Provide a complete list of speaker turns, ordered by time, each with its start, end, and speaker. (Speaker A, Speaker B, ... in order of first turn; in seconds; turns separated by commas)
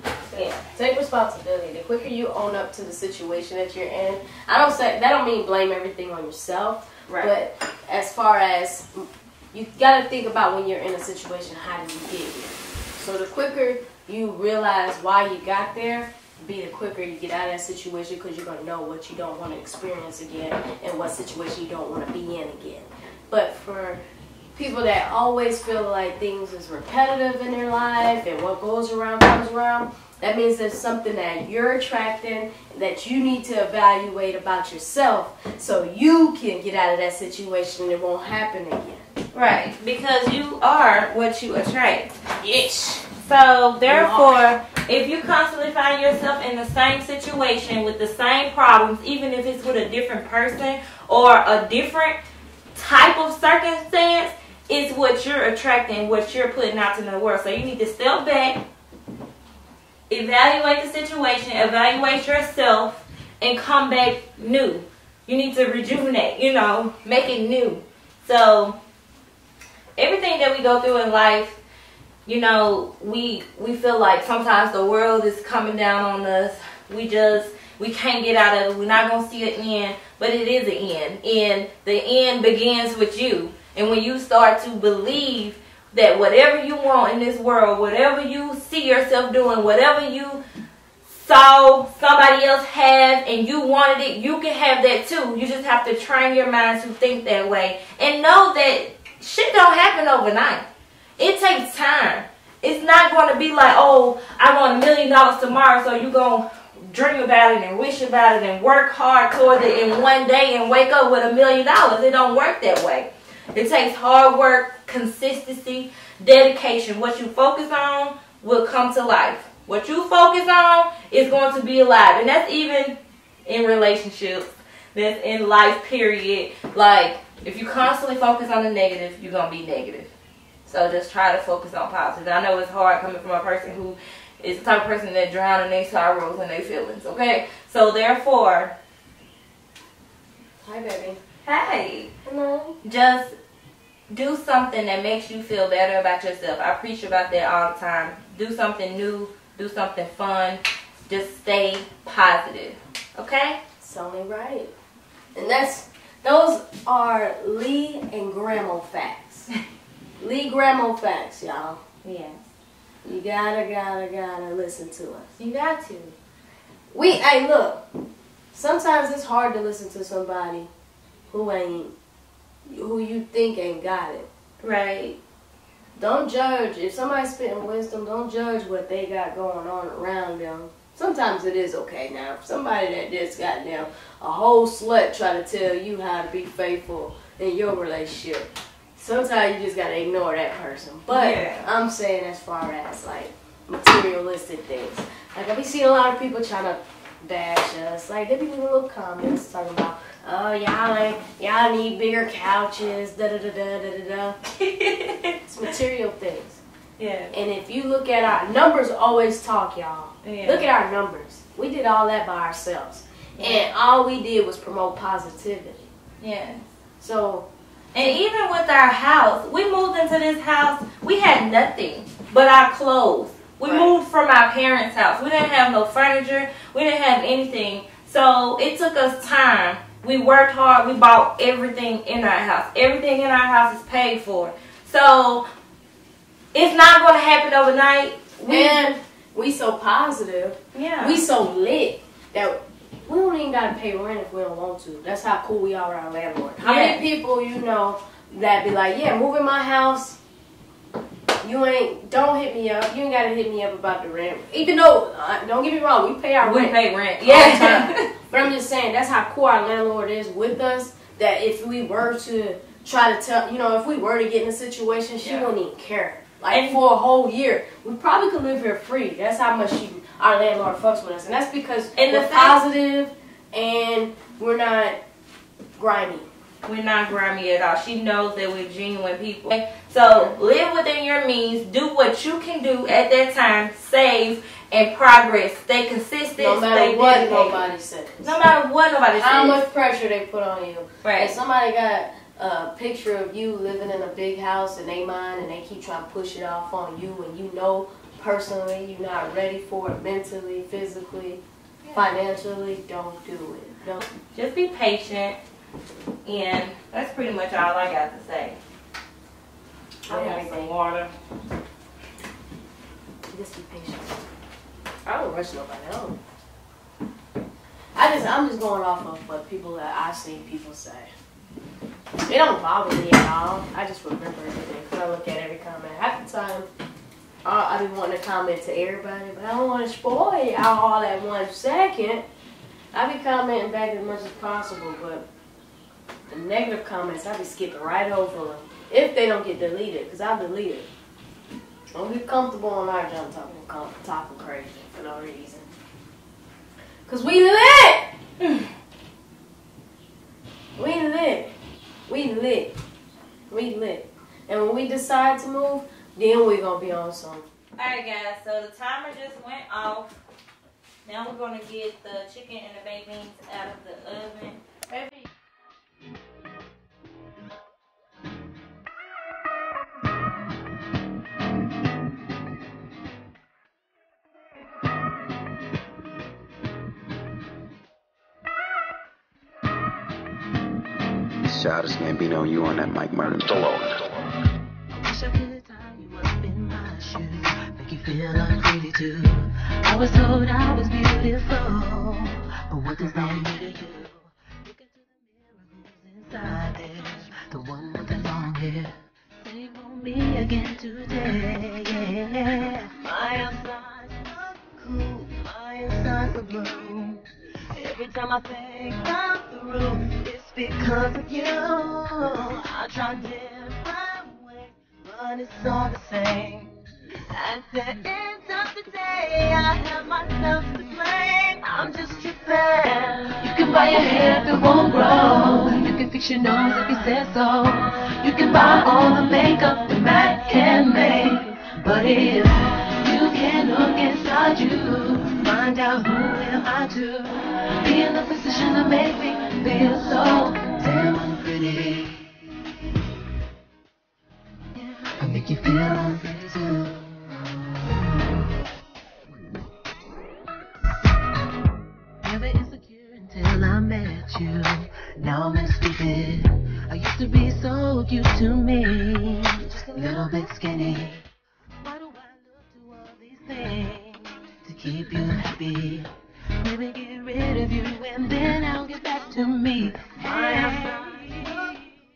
Speaker A: 0.3-0.6, Speaker B: 0.7-24.0, Speaker A: 7.1-7.3, Speaker B: 24.5-39.0, Speaker A: 39.3-42.1, Speaker B: 42.4-43.1, Speaker A: 43.2-52.2, Speaker B: 43.9-44.4, Speaker A: 52.7-58.6, Speaker A: 60.1-68.8, Speaker A: 70.0-71.6, Speaker A: 72.2-90.4, Speaker A: 91.1-100.7, Speaker A: 101.2-130.1, Speaker A: 130.7-138.7, Speaker B: 140.6-141.2, Speaker A: 141.4-142.1, Speaker B: 142.2-142.8, Speaker A: 142.8-143.3, Speaker A: 144.1-153.6, Speaker B: 153.8-154.7, Speaker B: 155.3-159.5, Speaker B: 160.2-161.8, Speaker A: 162.0-162.4, Speaker B: 163.0-165.3, Speaker A: 165.4-166.1, Speaker B: 166.9-167.8, Speaker B: 168.5-170.7, Speaker B: 171.3-171.9, Speaker B: 172.7-174.3, Speaker A: 174.6-175.2, Speaker B: 175.9-204.4, Speaker A: 191.1-191.7, Speaker A: 204.6-205.4, Speaker B: 205.5-206.6, Speaker A: 207.0-207.3, Speaker B: 207.3-215.9, Speaker A: 210.2-210.7, Speaker A: 213.4-213.7, Speaker A: 216.2-216.6, Speaker B: 217.0-217.5, Speaker A: 217.9-235.4, Speaker B: 223.6-223.9, Speaker A: 236.5-238.8, Speaker B: 238.4-250.2, Speaker A: 240.7-241.2, Speaker A: 246.6-247.0, Speaker B: 251.4-275.0, Speaker A: 256.4-258.1, Speaker A: 265.2-265.5, Speaker A: 266.5-266.8, Speaker A: 271.9-272.6, Speaker B: 275.8-276.3, Speaker A: 276.6-287.6, Speaker B: 286.4-288.4, Speaker A: 288.2-289.6, Speaker B: 289.1-301.4, Speaker A: 291.0-291.4, Speaker A: 301.8-302.1, Speaker B: 301.9-304.0, Speaker A: 304.3-305.4, Speaker A: 306.2-308.6, Speaker B: 310.1-310.7, Speaker A: 310.1-311.1, Speaker B: 313.3-314.2, Speaker B: 315.1-316.2, Speaker B: 317.9-321.1, Speaker B: 322.2-326.7, Speaker B: 327.4-332.2, Speaker B: 332.9-335.2, Speaker B: 336.3-340.9, Speaker B: 341.9-345.7, Speaker B: 347.1-348.1, Speaker B: 350.8-351.5, Speaker B: 352.1-352.7, Speaker B: 353.5-357.4, Speaker A: 357.8-360.1, Speaker A: 361.0-365.2, Speaker C: 381.4-384.1, Speaker D: 384.9-416.7, Speaker D: 417.3-442.2, Speaker D: 444.8-447.9, Speaker D: 452.2-461.2, Speaker D: 461.8-466.1, Speaker D: 466.6-471.9